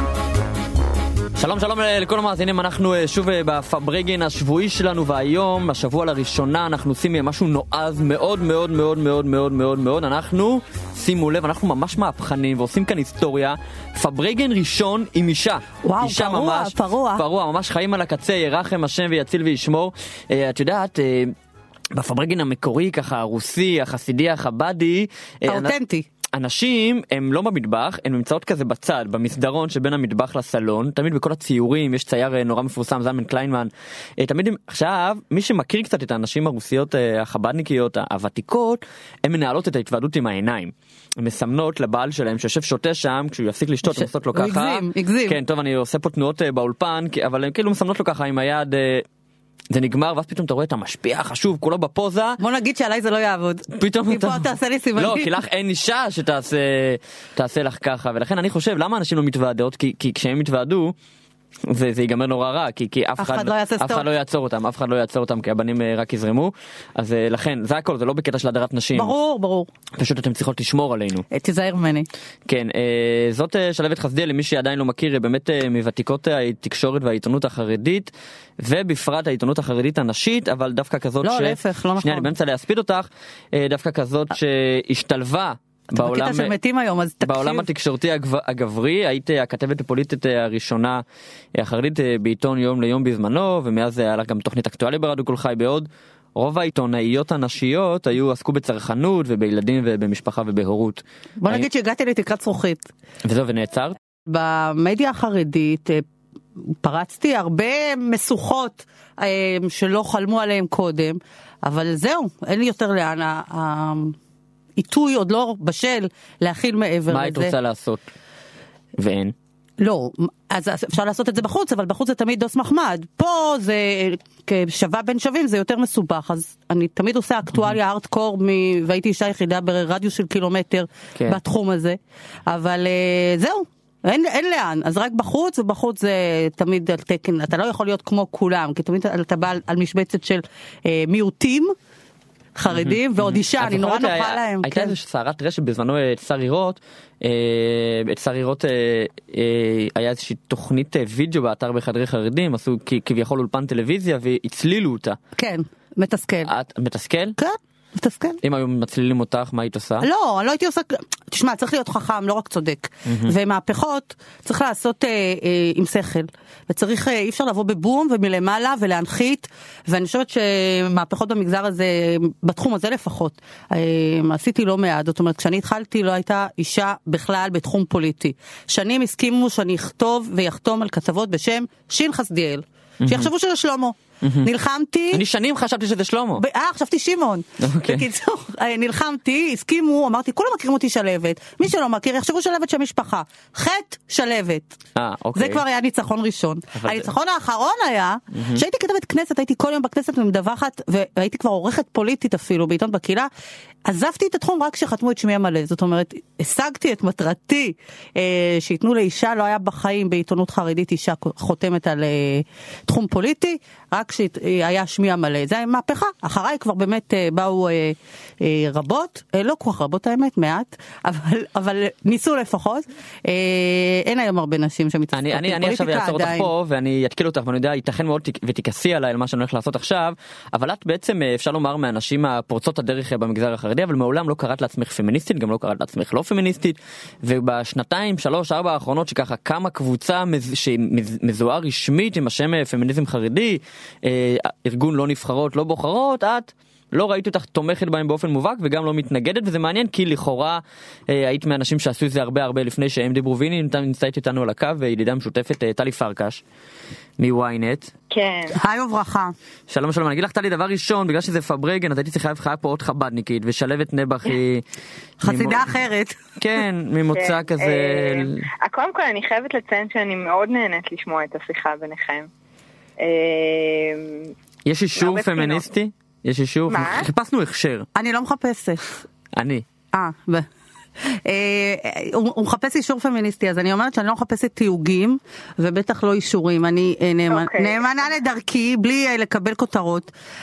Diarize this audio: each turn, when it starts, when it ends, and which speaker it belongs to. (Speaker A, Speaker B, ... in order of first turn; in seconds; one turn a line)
Speaker A: 1.4-21.3
Speaker B: 15.8-17.2
Speaker A: 21.9-25.7
Speaker B: 25.4-26.1
Speaker A: 26.3-49.0
Speaker B: 43.8-45.4
Speaker A: 49.7-52.4
Speaker B: 52.4-55.4
Speaker A: 53.8-60.9
Speaker A: 61.7-69.1
Speaker B: 63.2-64.0
Speaker B: 68.9-69.7
Speaker A: 70.0-71.2
Speaker B: 71.3-72.1
Speaker A: 72.5-86.5
Speaker B: 81.2-82.3
Speaker B: 85.9-87.7
Speaker A: 87.2-91.0
Speaker A: 91.5-101.7
Speaker B: 101.4-102.9
Speaker A: 103.2-104.0
Speaker B: 104.2-106.0
Speaker B: 106.7-114.2
Speaker B: 114.8-117.5
Speaker A: 117.1-118.0
Speaker A: 119.0-119.3
Speaker B: 119.8-141.8
Speaker B: 142.6-144.9
Speaker A: 142.7-155.2
Speaker B: 155.4-156.5
Speaker A: 156.4-157.4
Speaker B: 157.4-158.4
Speaker A: 158.4-160.1
Speaker B: 160.0-185.2
Speaker A: 163.1-163.3
Speaker A: 183.0-183.3
Speaker A: 184.2-184.5
Speaker A: 185.1-186.4
Speaker B: 186.4-194.7
Speaker A: 187.6-188.0
Speaker A: 194.9-195.6
Speaker B: 195.3-203.3
Speaker A: 196.8-197.1
Speaker A: 198.3-198.6
Speaker B: 203.8-226.5
Speaker A: 225.1-256.4
Speaker A: 257.2-257.9
Speaker C: 258.1-258.6
Speaker B: 258.5-259.3
Speaker A: 259.7-264.6
Speaker B: 265.2-266.2
Speaker A: 265.2-265.7
Speaker A: 266.4-268.4
Speaker C: 267.1-272.3
Speaker C: 273.0-274.3
Speaker A: 274.6-277.9
Speaker C: 275.0-275.6
Speaker C: 276.7-277.1
Speaker B: 277.9-278.8
Speaker A: 279.3-279.6
Speaker B: 279.9-280.5
Speaker B: 281.0-290.1
Speaker C: 287.3-287.8